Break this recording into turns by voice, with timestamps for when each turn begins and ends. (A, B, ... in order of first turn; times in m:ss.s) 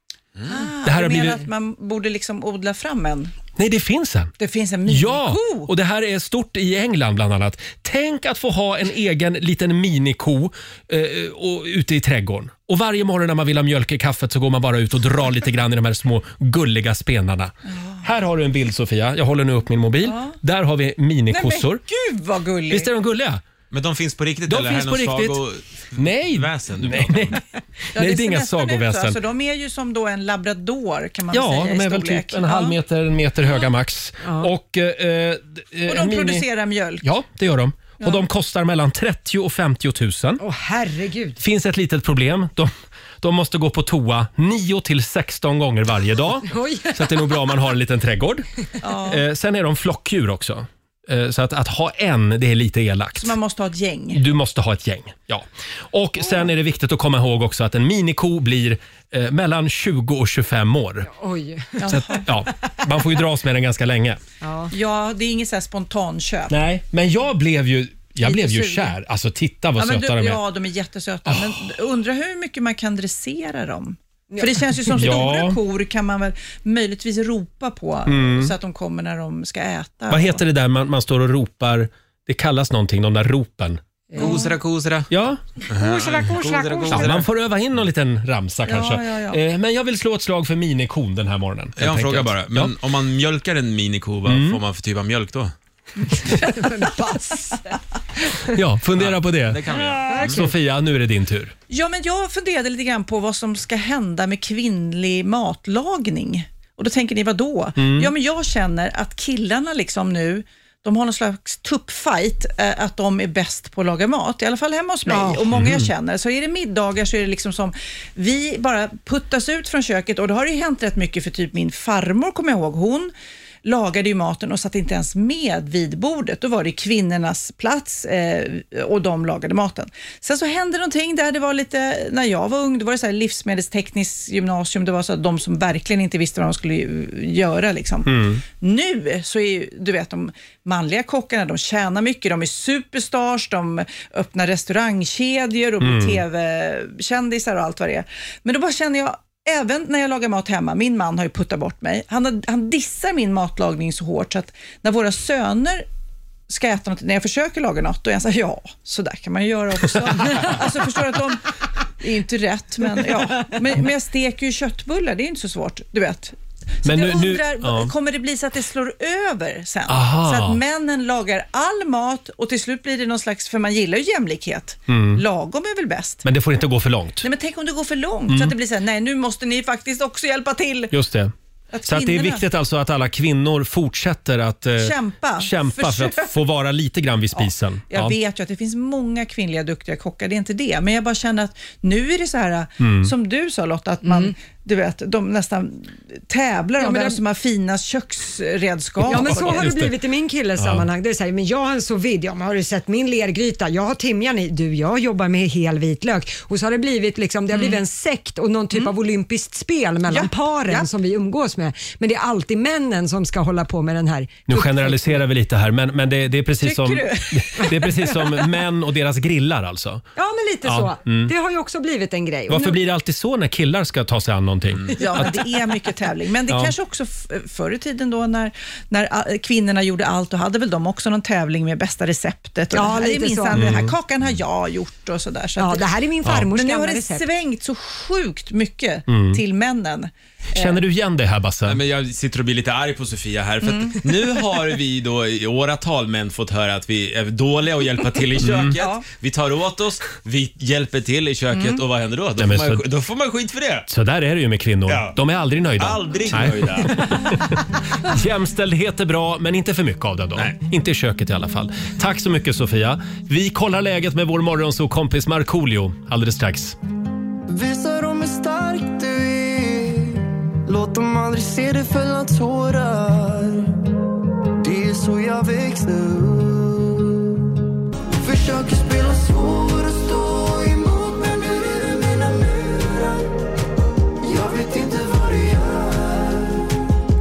0:00.5-0:03.3 A
0:00.8-0:01.5 B
0:03.6-0:04.3 B
0:04.4-0:05.7 A
0:04.9-0:21.8 B
0:20.0-0:20.4 A
0:21.3-0:22.9 A
0:22.7-0:23.4 B
0:23.7-0:27.4 C
0:24.5-0:25.4 B
0:26.0-0:27.4 B
0:27.9-0:29.2 B
0:27.9-0:32.8 A
0:31.3-0:36.5 B
0:34.2-0:34.5 D
0:35.9-0:37.0 A
0:37.0-0:40.4 B
0:40.4-0:41.4 D
0:41.4-0:48.5 B
0:46.5-0:47.2 D
0:48.8-0:49.2 A
0:49.0-0:53.4 B
0:53.2-0:54.2 A
0:54.1-1:01.1 B
1:01.1-1:01.9 D
1:01.8-1:02.3 A
1:01.9-1:04.2 B
1:04.4-1:04.7 D
1:04.7-1:06.6 A
1:06.5-1:10.4 B
1:08.2-1:09.0 A
1:09.8-1:20.4 A
1:11.3-1:11.6 B
1:14.9-1:15.6 B
1:18.1-1:18.5 B
1:20.1-1:23.8 B
1:24.1-1:24.4 D
1:24.2-1:25.1 C
1:24.2-1:24.5 A
1:25.1-1:25.4 B
1:25.7-1:27.3 C
1:25.7-1:27.2 D
1:26.9-1:32.7 B
1:28.7-1:29.4 A
1:31.8-1:35.5 C
1:34.3-1:34.6 B
1:36.4-1:37.6 A
1:36.4-1:37.7 D
1:38.5-1:41.5 B
1:39.0-1:40.4 C
1:40.0-1:40.5 D
1:41.7-2:03.1 A
1:47.8-1:48.1 B
1:55.1-1:55.4 D
1:55.5-1:55.9 B
2:03.6-2:35.9 A
2:18.1-2:18.4 B
2:25.8-2:26.2 B
2:36.5-2:41.5 A
2:42.0-2:56.2 A
2:46.8-2:47.9 B
2:49.9-2:50.6 B
2:54.9-2:55.2 B
2:56.2-2:57.3 B
2:57.2-3:00.9 A
2:58.3-2:58.6 B
3:00.9-3:01.3 B
3:01.7-3:02.4 A
3:01.8-3:08.2 B
3:04.8-3:06.3 A
3:07.4-3:19.7 A
3:12.8-3:13.1 B
3:14.0-3:14.3 D
3:16.8-3:17.2 D
3:19.0-3:35.2 D
3:19.1-3:19.9 B
3:20.6-3:20.9 B
3:27.5-3:27.8 A
3:30.1-3:30.9 A
3:34.5-3:40.0 B
3:36.6-3:37.7 A
3:40.2-3:42.8 D
3:40.6-3:41.3 B
3:42.5-3:45.4 B
3:45.0-3:55.9 A
3:46.5-3:46.7 B
3:52.7-3:53.7 D
3:53.5-3:54.0 B
3:55.6-3:57.3 D
3:56.4-4:00.8 A
3:59.1-3:59.4 B
4:00.5-4:01.8 B
4:01.7-4:13.9 C
4:03.6-4:04.0 A
4:08.4-4:08.8 B
4:11.5-4:11.8 A
4:12.4-4:12.8 B
4:13.9-4:26.8 B
4:14.9-4:15.2 C
4:15.8-4:17.3 C
4:27.5-4:33.8 E
4:34.6-4:37.2 E
4:38.2-4:43.3 E
4:44.2-4:46.6 E